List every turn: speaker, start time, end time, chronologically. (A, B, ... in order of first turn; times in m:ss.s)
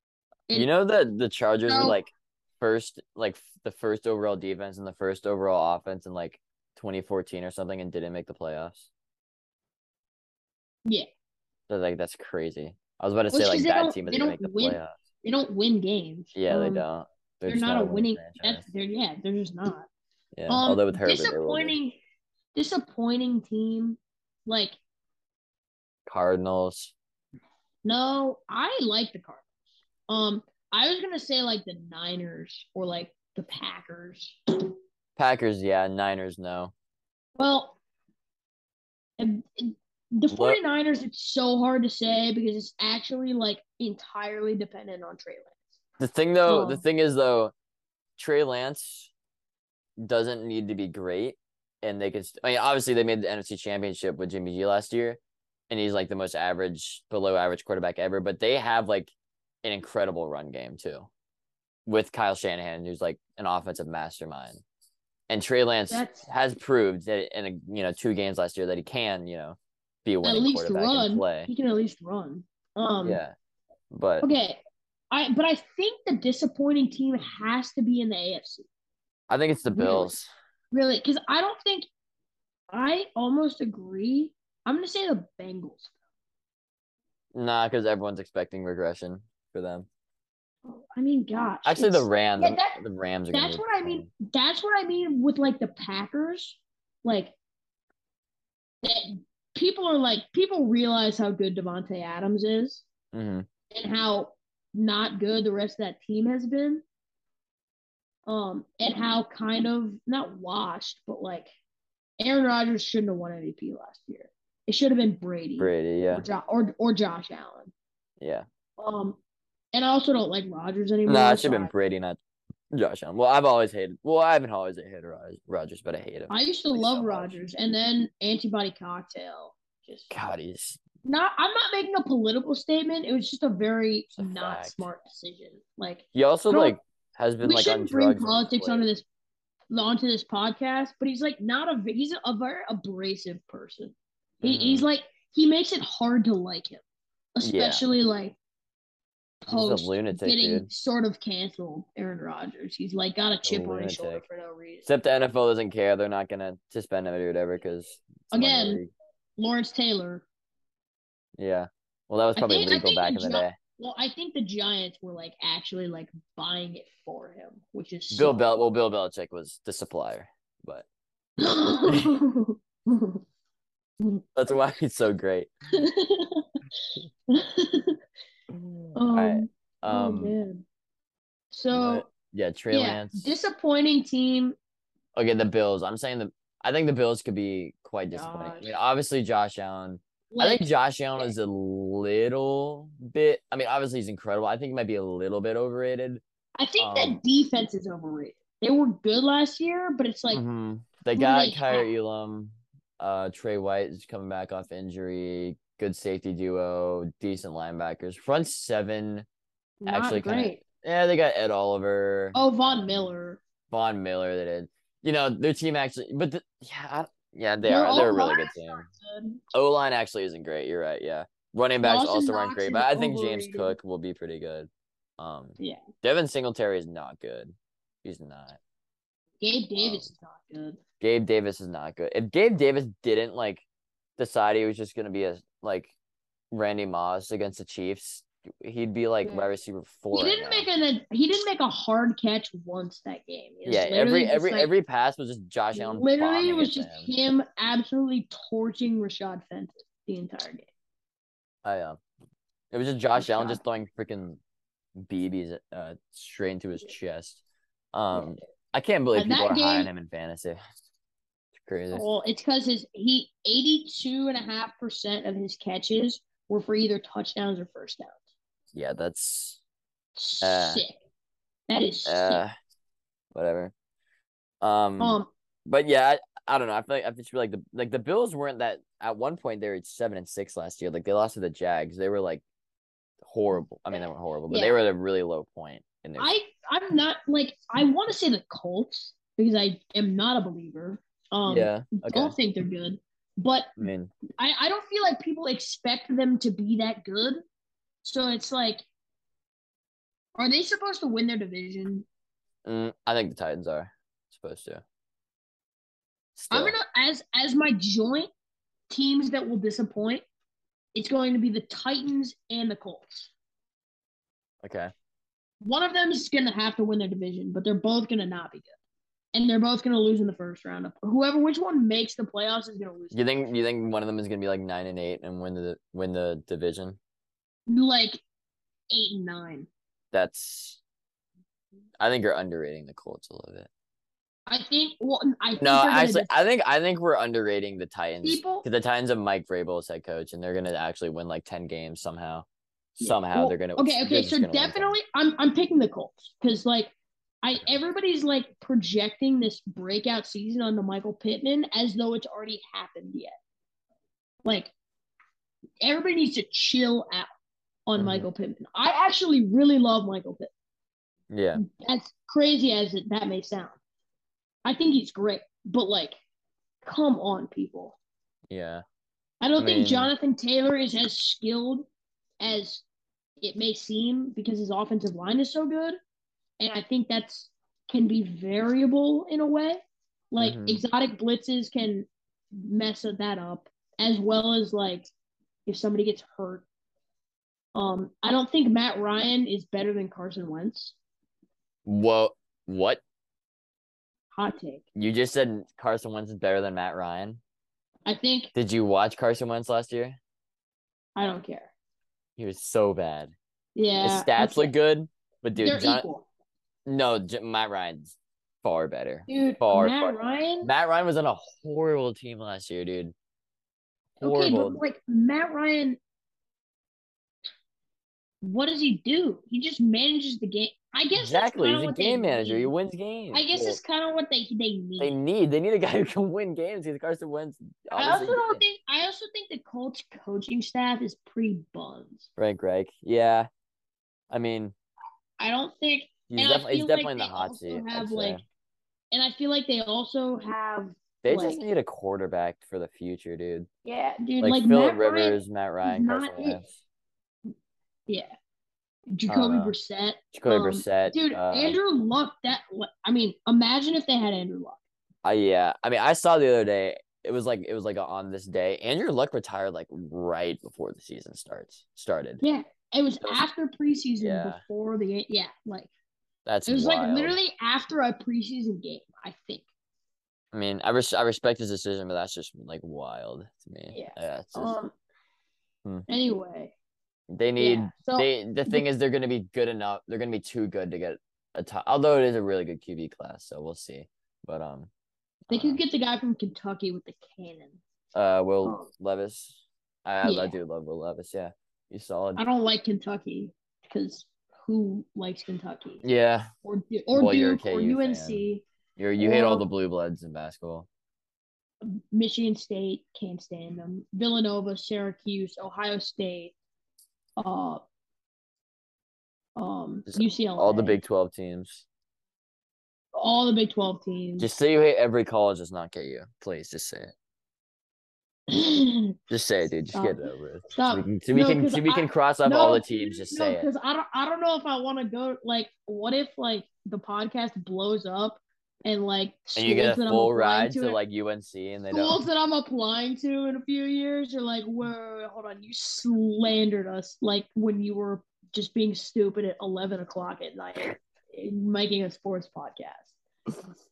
0:00.5-0:08.9 A
0:01.7-0:02.0 B
0:11.7-0:14.9 A
0:13.3-0:16.8 B
0:16.4-0:18.6 A
0:17.5-0:19.9 B
0:20.4-0:21.8 A
0:20.5-0:22.0 B
0:22.6-0:24.8 B
0:26.1-0:26.9 A
0:27.8-0:29.5 B
0:30.1-0:34.4 B
0:35.2-0:36.7 A
0:37.4-0:37.8 B
0:39.2-0:45.6 B
0:40.3-0:40.6 A
0:46.0-0:47.5 A
0:46.5-0:46.8 B
0:48.2-0:49.1 A
0:50.0-0:59.1 A
0:59.6-1:01.1 A
1:01.9-1:04.6 A
1:05.3-1:11.5 A
1:05.9-1:06.2 B
1:10.2-1:13.2 B
1:13.0-1:13.3 A
1:13.9-1:14.3 A
1:14.2-1:14.6 B
1:15.1-1:18.7 B
1:19.3-1:20.3 A
1:19.7-1:20.1 B
1:20.7-1:21.9 B
1:22.7-1:25.9 B
1:27.3-1:29.9 A
1:30.7-1:32.8 B
1:31.6-1:34.1 A
1:33.3-1:37.4 B
1:38.8-1:42.8 B
1:43.1-1:43.5 A
1:43.7-1:46.8 B
1:48.3-1:51.5 B
1:52.2-1:57.7 B
1:55.6-1:56.3 A
1:58.2-1:58.4 A
1:58.8-1:59.2 B
1:59.7-2:01.7 B
2:01.1-2:02.2 A
2:02.7-2:07.4 A
2:06.3-2:10.1 B
2:10.1-2:10.8 A
2:11.0-2:16.8 B
2:14.2-2:14.9 A
2:16.2-2:18.9 A
2:17.4-2:19.0 B
2:19.7-2:26.8 B
2:24.4-2:24.9 A
2:27.4-2:28.4 B
2:27.4-2:27.9 A
2:29.4-2:34.9 B
2:29.5-2:30.7 A
2:33.4-2:34.2 A
2:34.9-2:38.9 A
2:38.3-2:38.8 B
2:39.4-2:40.3 B
2:41.4-2:43.6 A
2:42.4-2:48.4 B
2:48.1-2:50.9 A
2:51.4-2:53.2 B
2:51.8-2:52.1 A
2:54.4-2:55.5 A
2:55.7-2:56.4 B
2:57.3-2:58.0 B
2:59.0-3:00.6 B
2:59.1-3:00.4 A
3:01.5-3:02.1 B
3:01.7-3:03.4 A
3:02.7-3:04.6 B
3:05.2-3:16.2 A
3:08.1-3:08.8 B
3:10.3-3:11.3 B
3:16.6-3:20.4 B
3:16.8-3:17.2 A
3:20.3-3:29.3 A
3:21.2-3:21.9 B
3:29.8-3:30.6 B
3:29.9-3:32.9 A
3:32.3-3:33.4 B
3:33.7-3:38.9 A
3:37.6-3:39.4 B
3:39.5-3:48.6 A
3:41.8-3:43.8 B
3:49.4-3:50.8 B
3:49.8-3:50.1 A
3:51.0-3:53.6 A
3:54.2-3:55.9 A
3:56.5-4:00.7 A
4:00.1-4:04.7 B
4:03.7-4:07.1 A
4:05.7-4:10.7 B
4:11.6-4:12.0 A
4:12.7-4:14.4 A
4:13.2-4:13.6 B
4:15.0-4:20.6 A
4:19.1-4:19.9 B
4:21.6-4:22.1 A
4:21.9-4:28.2 B
4:28.7-4:29.6 A
4:30.2-4:31.0 B
4:30.4-4:30.8 A
4:31.7-4:32.4 B
4:32.1-4:32.5 A
4:33.3-4:33.7 A
4:34.6-4:42.4 A
4:35.0-4:35.3 B
4:43.2-4:46.3 A
4:44.5-4:44.8 B
4:46.2-4:53.8 B
4:51.5-4:52.4 A
4:53.8-4:54.1 A
4:54.4-4:57.4 B
4:58.0-4:58.8 B
5:00.4-5:02.1 B
5:02.6-5:04.8 A
5:06.4-5:06.8 A
5:06.5-5:08.3 B
5:08.9-5:10.2 B
5:11.0-5:13.3 B
5:14.6-5:14.9 A
5:15.6-5:18.7 B
5:19.3-5:23.2 B
5:23.1-5:27.0 A
5:27.7-5:28.2 B
5:28.9-5:29.7 B
5:30.1-5:30.8 A
5:32.0-5:33.7 A
5:34.5-5:36.3 B
5:35.6-5:42.5 A
5:38.2-5:38.7 B
5:43.0-5:53.4 B
5:43.0-5:45.0 A
5:54.4-5:54.7 B
5:55.8-5:57.3 B
5:57.9-6:00.5 B
5:58.0-5:58.3 A
6:01.3-6:01.6 A
6:01.6-6:03.8 B
6:04.6-6:06.2 B
6:06.8-6:08.0 B
6:08.5-6:08.8 A
6:09.4-6:11.9 B
6:09.6-6:10.1 A
6:12.4-6:12.8 B
6:13.4-6:16.0 B
6:16.6-6:25.1 B
6:20.4-6:20.8 A
6:25.7-6:26.6 B
6:27.8-6:31.0 B
6:31.9-6:33.0 A
6:34.3-6:34.8 B
6:35.0-6:37.4 A
6:38.1-6:38.5 B
6:38.6-6:40.2 A
6:41.2-6:41.7 B
6:42.4-6:43.3 A
6:43.8-6:44.7 B
6:44.0-6:46.0 A
6:45.6-6:46.3 B
6:46.9-6:53.1 A
6:49.3-6:50.7 B
6:54.2-6:56.0 B
6:54.2-6:54.8 A
6:58.4-7:02.7 B
7:01.2-7:03.8 A
7:03.3-7:05.2 B
7:05.0-7:08.6 A
7:07.9-7:12.3 B
7:12.4-7:13.5 A
7:14.3-7:14.7 A
7:15.4-7:18.4 B
7:16.3-7:18.4 A
7:19.1-7:21.6 B
7:21.2-7:23.7 A
7:23.8-7:26.6 B
7:24.4-7:26.8 A
7:28.1-7:28.3 B
7:29.1-7:34.8 B
7:29.3-7:29.8 A
7:30.3-7:31.8 A
7:35.2-7:42.4 A
7:42.4-7:45.9 B
7:44.2-7:44.6 A
7:46.5-7:47.4 A
7:46.7-7:49.6 B
7:50.5-7:54.8 A
7:53.9-7:54.9 B
7:56.1-7:56.7 B
7:57.3-8:04.9 A
7:57.6-7:58.8 B
8:05.5-8:05.8 A
8:05.5-8:07.8 B
8:08.1-8:12.4 A
8:10.2-8:10.6 B
8:12.4-8:16.0 B
8:16.0-8:16.5 A
8:16.6-8:18.6 B
8:17.1-8:18.4 A
8:19.0-8:20.9 A
8:19.2-8:19.7 B
8:21.8-8:26.6 B
8:27.4-8:27.8 B
8:29.6-8:31.0 B
8:30.1-8:31.8 A
8:33.2-8:34.5 B
8:34.4-8:37.1 A
8:38.5-8:39.2 B
8:39.3-8:43.7 A
8:39.9-8:40.2 B
8:40.7-8:51.0 B
8:49.6-8:52.2 A
8:51.9-9:03.2 B